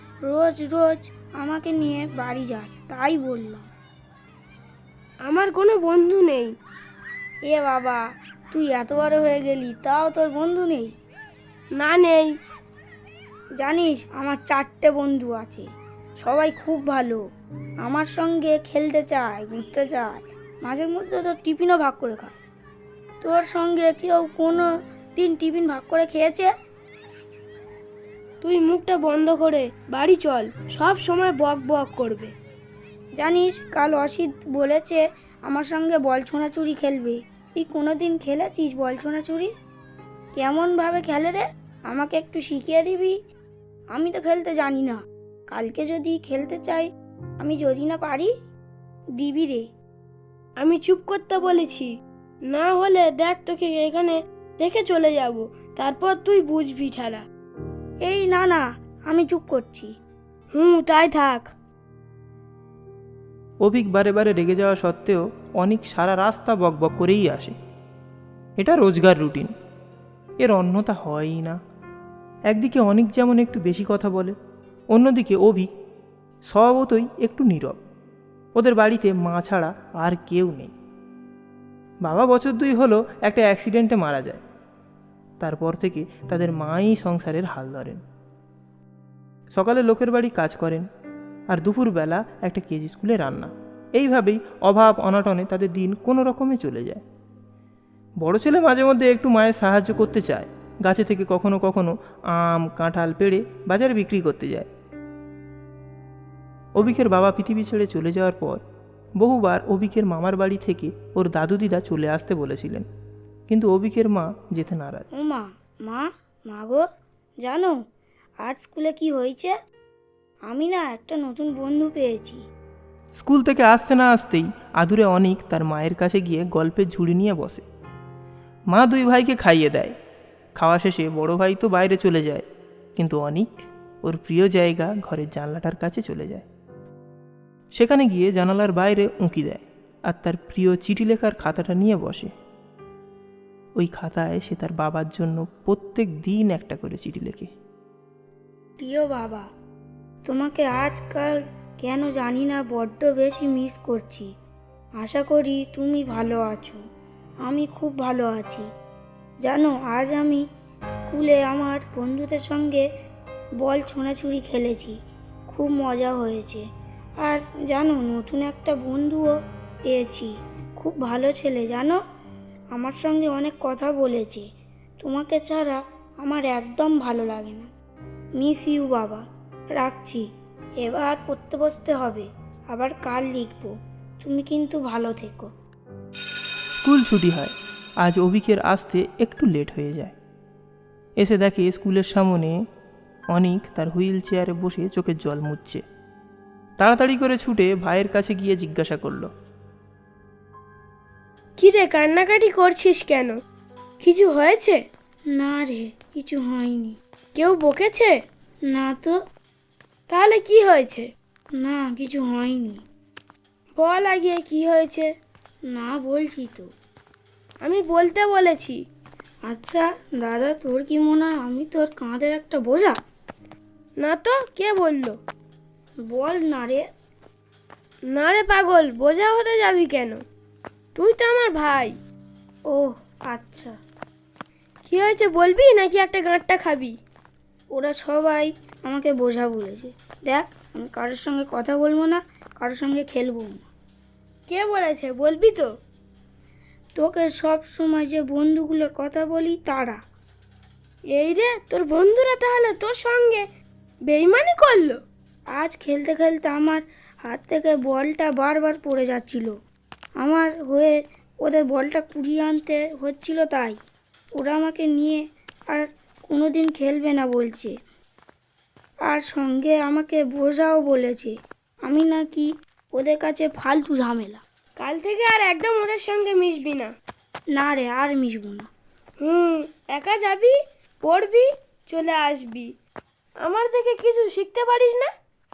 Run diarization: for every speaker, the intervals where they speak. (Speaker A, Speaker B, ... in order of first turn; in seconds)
Speaker A: 0.2-3.7, 7.5-10.9, 13.6-15.7, 16.2-17.2, 17.8-22.4, 23.2-26.5, 33.2-39.5, 40.3-43.2, 43.9-46.9, 47.4-48.3, 49.2-49.7, 58.0-59.9, 115.2-116.8, 117.4-117.8, 118.5-119.5, 120.5-122.4, 148.8-149.5, 150.2-154.3, 155.0-156.8, 157.4-158.7, 159.4-162.8, 163.6-165.0, 165.5-166.7, 167.2-169.3, 169.9-172.0, 172.7-174.4, 175.0-177.7, 178.4-180.2, 180.8-185.5, 205.3-207.0, 208.7-209.2, 211.6-212.8, 215.7-216.7, 219.5-223.0, 226.1-226.8, 232.7-233.8, 237.7-243.7, 247.0-250.0, 255.6-259.5, 260.2-263.8, 264.4-265.2, 265.7-267.7, 269.1-271.3, 271.9-274.4, 277.6-278.7
Speaker B: 5.3-6.5, 11.8-12.3, 28.4-32.3, 50.6-51.9, 52.5-57.2, 60.5-61.5, 201.6-203.4, 204.0-204.8, 207.4-208.1, 210.1-211.1, 213.8-215.1, 217.6-218.8, 224.0-225.2, 228.1-230.2, 230.9-231.9, 234.9-236.9, 244.5-245.7, 251.2-253.4, 254.1-255.0, 274.8-276.9, 279.2-282.7, 283.4-285.1
Speaker C: 63.6-67.6, 68.6-69.5, 70.4-71.6, 72.5-74.4, 74.9-75.7, 76.5-77.8, 78.6-80.7, 82.1-84.4, 85.4-88.0, 89.6-90.9, 91.5-97.0, 98.2-104.7, 106.8-108.6, 109.2-112.9, 113.5-115.1, 123.2-127.6, 128.7-129.9, 130.6-136.5, 137.8-142.3, 143.8-147.5, 186.8-190.2, 191.2-192.6, 193.3-195.8, 196.8-199.3